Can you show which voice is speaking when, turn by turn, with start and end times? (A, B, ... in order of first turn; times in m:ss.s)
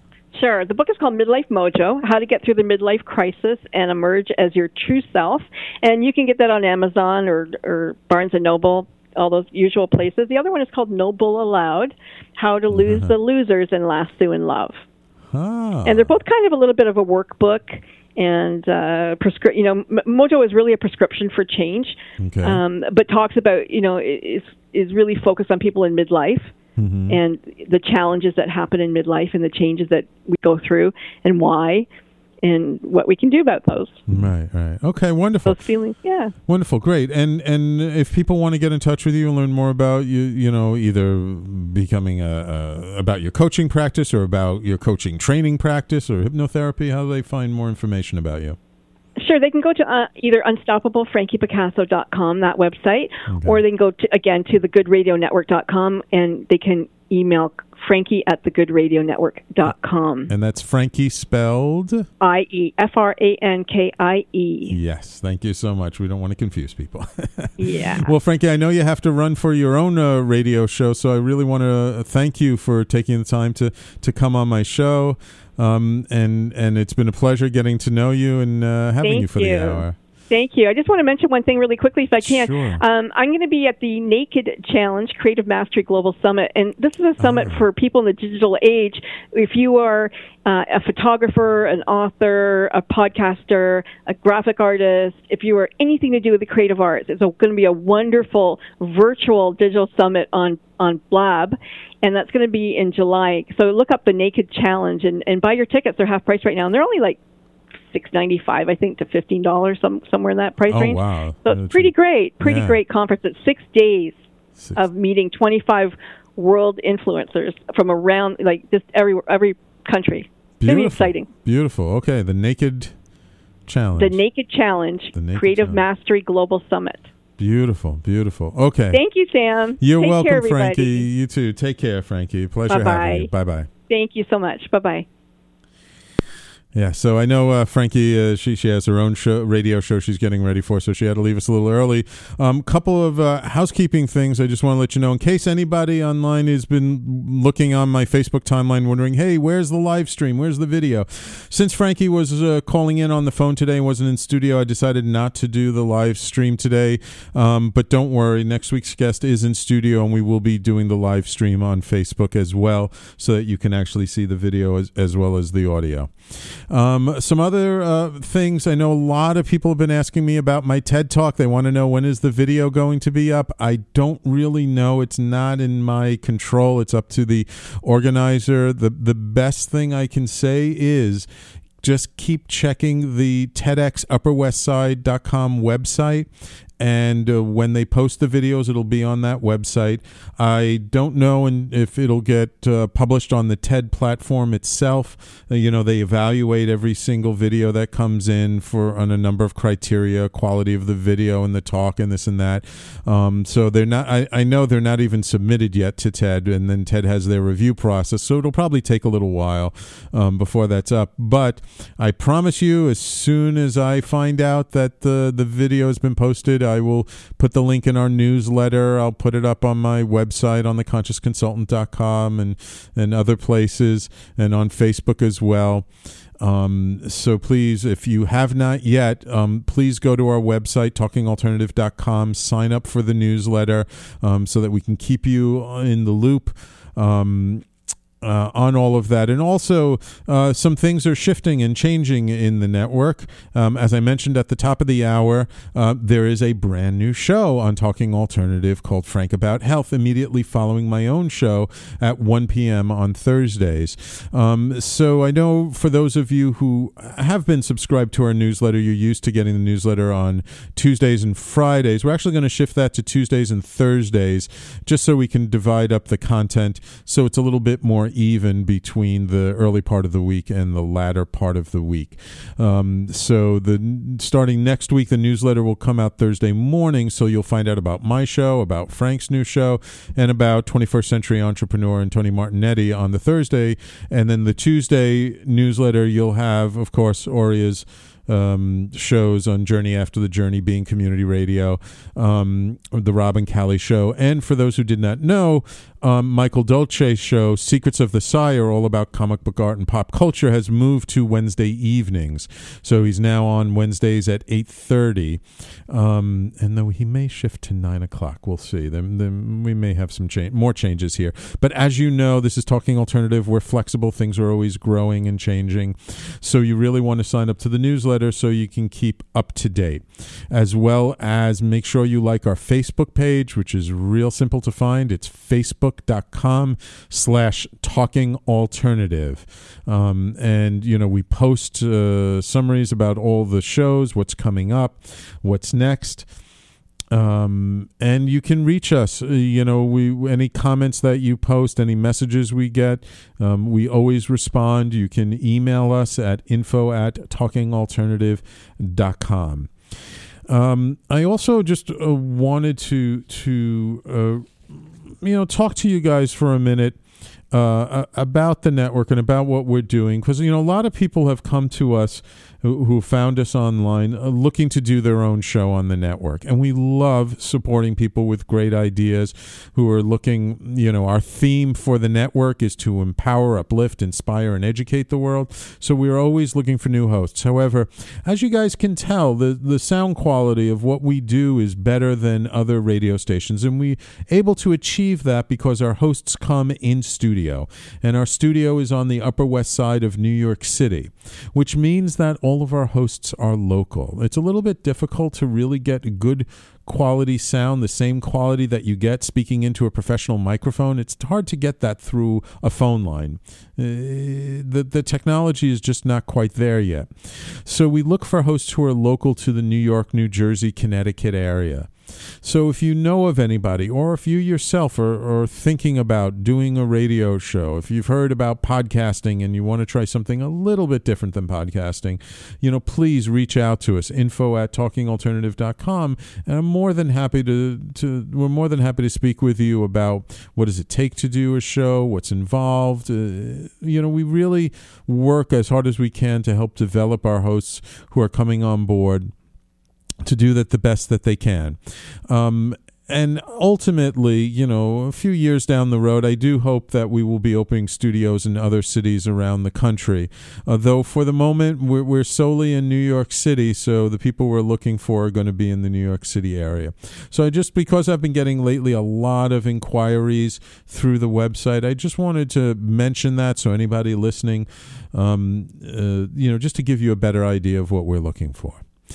0:00.3-0:14.8 A
0:12.7-0:13.1 B
0:15.3-0:16.2 B
0:15.8-0:26.5 A
0:22.2-0:22.6 B
0:26.8-0:27.2 B
0:27.1-0:31.9 A
0:32.4-0:34.0 A
0:34.1-0:35.6 B
0:35.4-0:36.3 A
0:36.5-0:48.6 B
0:49.2-1:00.3 A
0:53.3-0:53.6 B
1:00.3-1:02.1 B
1:02.2-1:04.8 A
1:04.7-1:20.0 B
1:07.6-1:08.1 A
1:19.0-1:47.2 A
1:22.2-1:22.8 B
1:27.2-1:27.6 B
1:47.9-1:54.2 A
1:50.7-1:52.8 B
1:54.6-1:54.8 B
1:54.7-2:01.3 A
2:00.6-2:02.9 B
2:03.6-2:04.2 B
2:04.0-2:07.1 A
2:05.1-2:05.8 B
2:07.4-2:09.0 B
2:08.9-2:11.0 A
2:09.8-2:13.7 B
2:12.7-2:13.3 A
2:13.9-2:15.0 A
2:16.7-3:01.3 B
3:01.8-3:45.9 B
3:46.4-3:57.6 B
3:58.2-5:36.3 B
5:37.1-5:49.7 B
5:50.5-5:57.0 B
5:57.5-7:19.3 B
7:20.2-7:48.8 B